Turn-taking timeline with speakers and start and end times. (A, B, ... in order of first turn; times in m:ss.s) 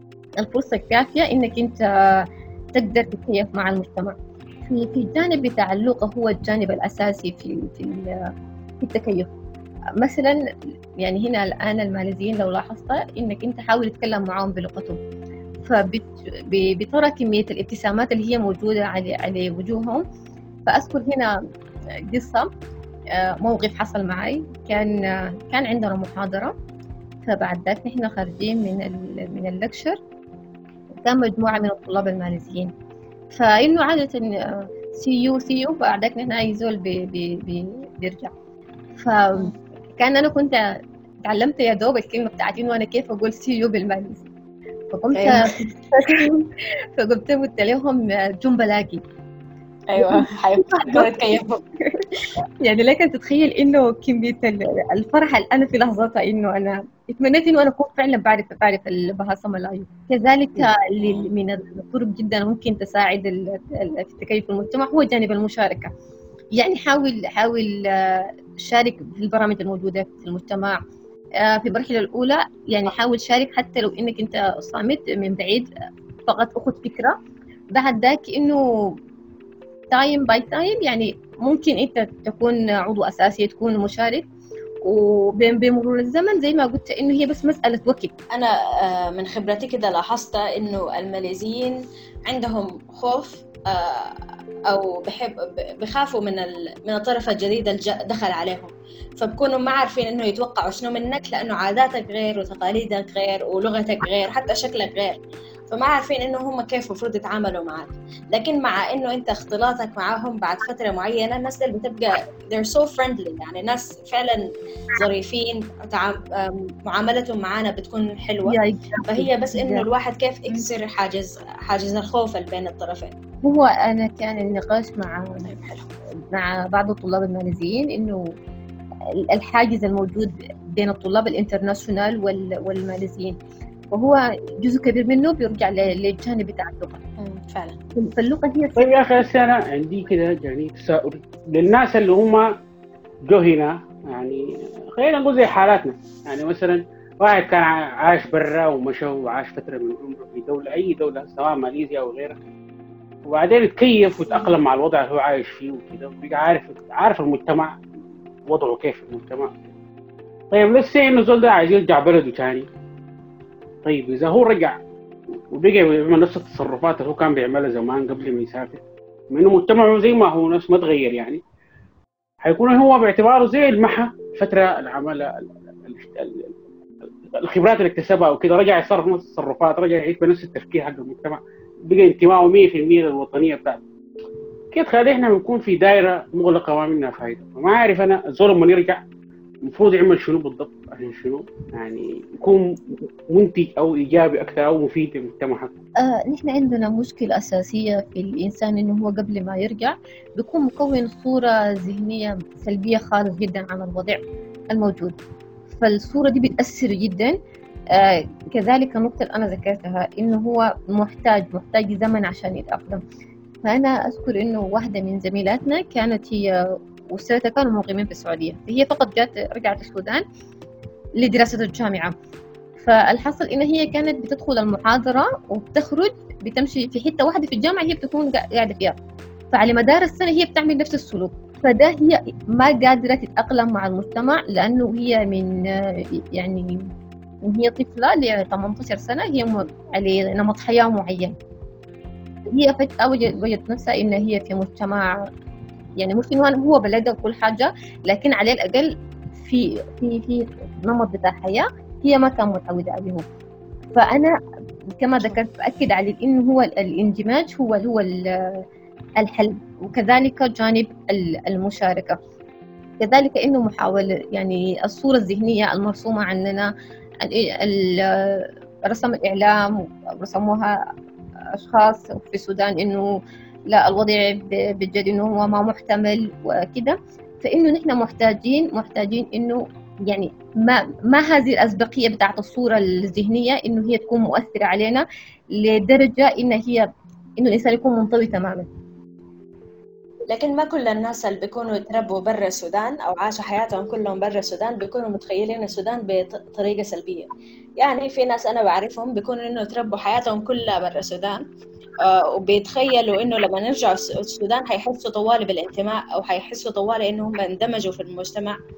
0:00.4-0:04.2 A
0:04.7-0:08.1 A
0:08.8-0:09.3 A
0:10.0-0:10.4 A
0:11.0-0:15.0 A
0:15.6-0:20.0 A
0:20.7-0:21.4 A
0:22.1-0:22.5 A
0:23.1-0:26.5 A
0:27.2-0:30.0 A
0:31.0-0:32.7 A
0:33.3-0:38.3 A
0:39.0-0:40.6 A
0:41.2-0:44.3 A
0:44.9-0:49.0 A
0:45.1-0:45.5 B
0:49.9-0:51.6 B
0:50.0-1:05.9 A
1:01.0-1:01.3 B
1:06.6-1:10.8 A
1:11.4-1:15.7 A
1:16.3-1:17.2 A
1:17.7-1:19.0 A
1:19.9-1:24.2 A
1:24.8-1:28.1 A
1:28.3-1:45.2 B
1:45.7-1:54.4 B
1:54.9-2:03.1 B
1:58.5-1:59.9 A
2:03.4-2:05.4 A
2:05.4-2:05.9 B
2:06.3-2:08.4 A
2:09.2-2:13.4 A
2:13.9-2:17.0 A
2:17.2-2:17.8 B
2:17.9-2:18.8 A
2:18.8-2:22.5 C
2:23.2-2:32.4 C
2:33.2-2:37.8 C
2:34.3-2:34.6 B
2:38.5-2:39.6 C
2:40.5-2:42.7 C
2:43.8-2:44.8 C
2:45.5-2:51.4 C
2:52.4-3:03.8 C
3:04.7-3:09.0 C
3:09.6-3:15.7 C
3:16.0-3:25.1 A
3:25.7-3:27.4 A
3:27.9-3:33.0 A
3:33.6-3:40.2 A
3:41.2-3:42.1 A
3:42.8-3:49.0 A
3:49.5-3:55.5 A
3:56.2-3:56.9 A
3:57.4-4:01.4 A
4:02.5-4:05.1 A
4:06.0-4:13.2 A
4:13.9-4:14.4 A
4:15.0-4:18.6 A
4:19.2-4:22.2 A
4:23.0-4:30.7 A
4:31.5-4:33.1 A
4:33.7-4:46.9 A
4:47.4-4:48.7 A
4:50.3-5:01.4 B
5:02.0-5:08.6 B